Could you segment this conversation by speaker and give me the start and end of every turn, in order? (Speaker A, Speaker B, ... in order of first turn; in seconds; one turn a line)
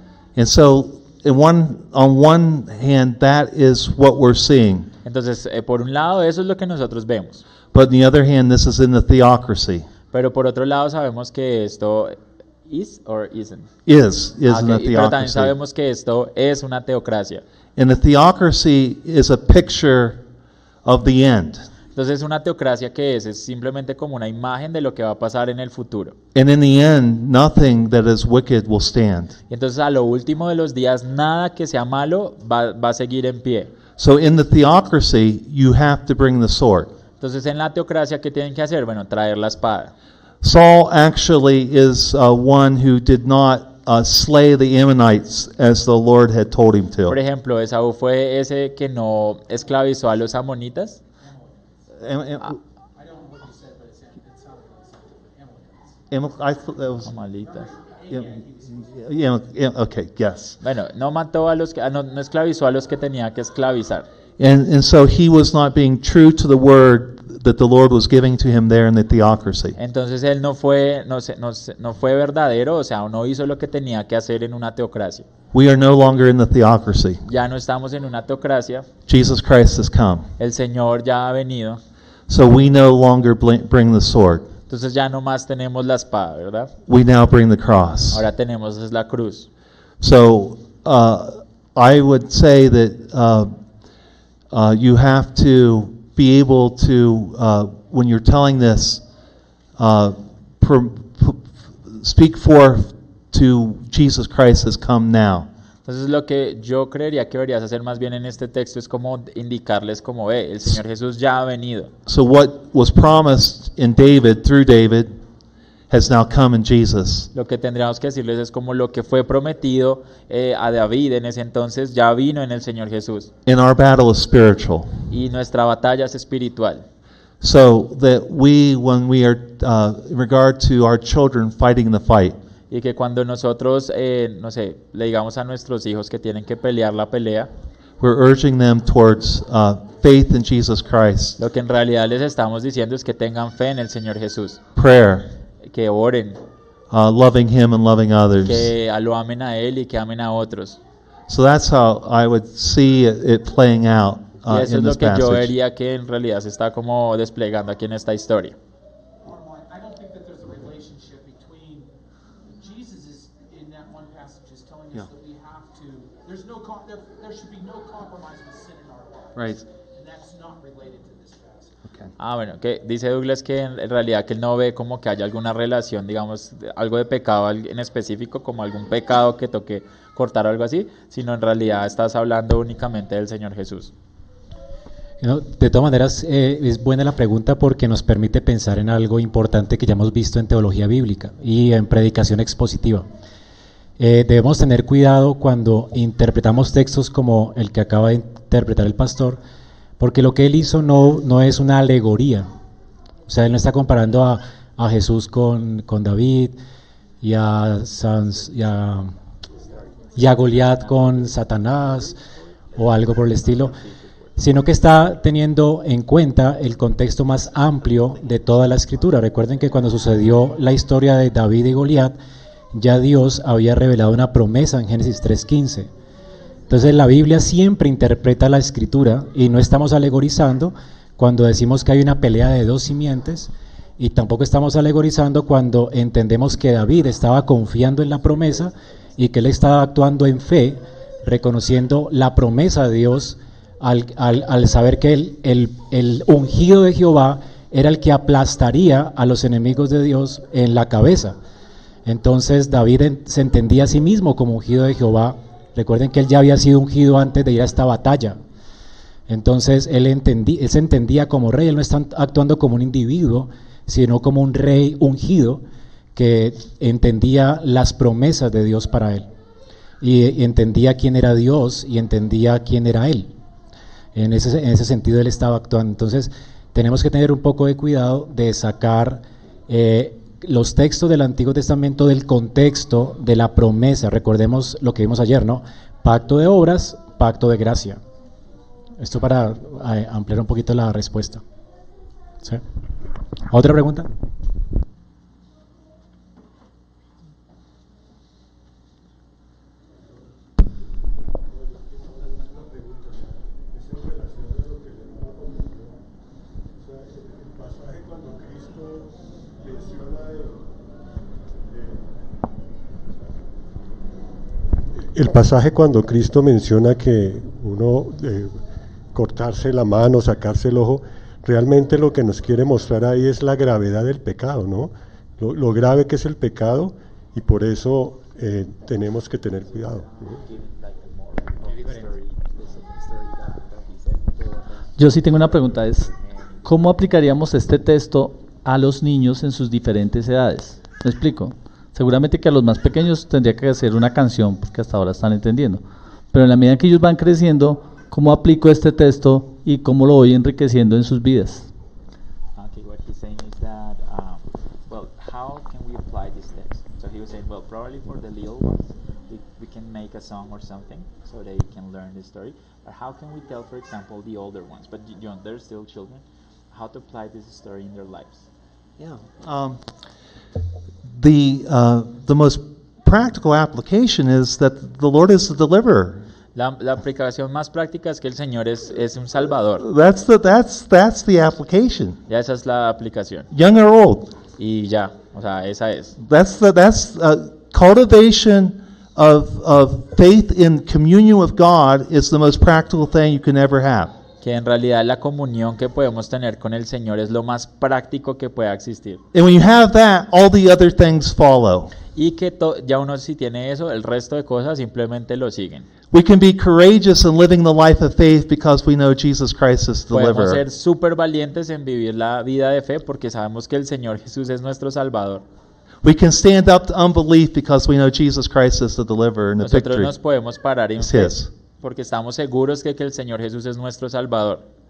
Speaker A: 0.3-4.9
Speaker B: 5.0-7.4
Speaker A: 7.7-9.9
Speaker B: 10.1-13.7
Speaker A: 13.8-15.5
Speaker B: 14.5-17.4
Speaker A: 17.8-20.2
Speaker A: 20.8-21.6
Speaker B: 21.9-26.1
Speaker A: 26.3-29.4
Speaker B: 29.5-33.7
Speaker A: 34.0-36.9
Speaker B: 37.2-39.9
Speaker A: 40.4-47.2
Speaker B: 47.1-51.0
Speaker C: 51.2-51.8
Speaker A: 52.0-52.6
Speaker C: 52.9-56.0
Speaker A: 56.1-57.1
Speaker B: 57.0-57.7
Speaker C: 57.5-58.9
Speaker A: 58.1-60.6
Speaker B: 60.6-64.1
Speaker A: 64.4-69.8
Speaker B: 69.8-75.2
Speaker A: 75.5-77.2
Speaker B: 77.2-78.9
Speaker A: 79.1-80.3
Speaker B: 80.4-81.8
Speaker A: 82.3-84.5
Speaker B: 84.7-86.7
Speaker A: 86.9-88.2
Speaker B: 88.1-89.5
Speaker A: 90.0-93.5
Speaker A: 94.5-99.0
Speaker A: 99.8-105.5
Speaker B: 105.8-111.9
Speaker A: 112.1-115.2
Speaker A: 115.9-117.3
Speaker B: 117.3-123.3
Speaker A: 123.5-124.9
Speaker B: 125.1-126.8
Speaker A: 127.4-132.4
Speaker B: 132.7-137.5
Speaker A: 138.0-141.4
Speaker B: 141.4-144.6
Speaker A: 144.8-145.3
Speaker B: 145.6-146.4
Speaker A: 146.9-148.7
Speaker B: 148.4-150.8
Speaker A: 151.3-155.5
Speaker B: 154.5-158.6
Speaker C: 159.2-161.9
Speaker C: 162.5-171.7
Speaker A: 169.3-169.6
Speaker B: 172.2-183.9
Speaker D: 185.2-193.1
Speaker D: 194.0-199.4
Speaker D: 200.0-202.5
Speaker D: 203.3-206.6
Speaker D: 207.2-209.1
Speaker D: 210.2-212.2
Speaker D: 212.7-213.8
Speaker B: 213.8-214.1
Speaker D: 214.3-222.2
Speaker D: 222.7-225.9
Speaker D: 226.7-251.3
Speaker D: 252.0-258.4
Speaker D: 259.3-265.6
Speaker D: 266.1-269.3
Speaker D: 270.0-273.3
Speaker D: 274.1-288.0
Speaker D: 289.0-291.4
Speaker D: 293.5-294.1
Speaker E: 301.4-306.0
Speaker E: 306.8-310.8
Speaker E: 311.7-313.4
Speaker E: 314.9-318.6
Speaker E: 319.1-330.4
Speaker B: 329.7-335.0
Speaker F: 334.9-336.1
Speaker B: 336.0-336.8
Speaker F: 336.6-351.7
Speaker B: 352.6-368.4
Speaker A: 369.0-369.8
Speaker A: 371.1-376.2
Speaker B: 376.5-379.9
Speaker A: 379.8-382.2
Speaker B: 382.3-383.5
Speaker A: 383.5-384.3
Speaker B: 384.6-386.1
Speaker A: 386.2-394.1
Speaker B: 394.4-399.2
Speaker A: 399.3-401.9
Speaker B: 402.1-405.9
Speaker A: 406.1-410.6
Speaker B: 410.1-415.4
Speaker A: 416.0-420.1
Speaker B: 419.6-424.6
Speaker A: 421.0-421.5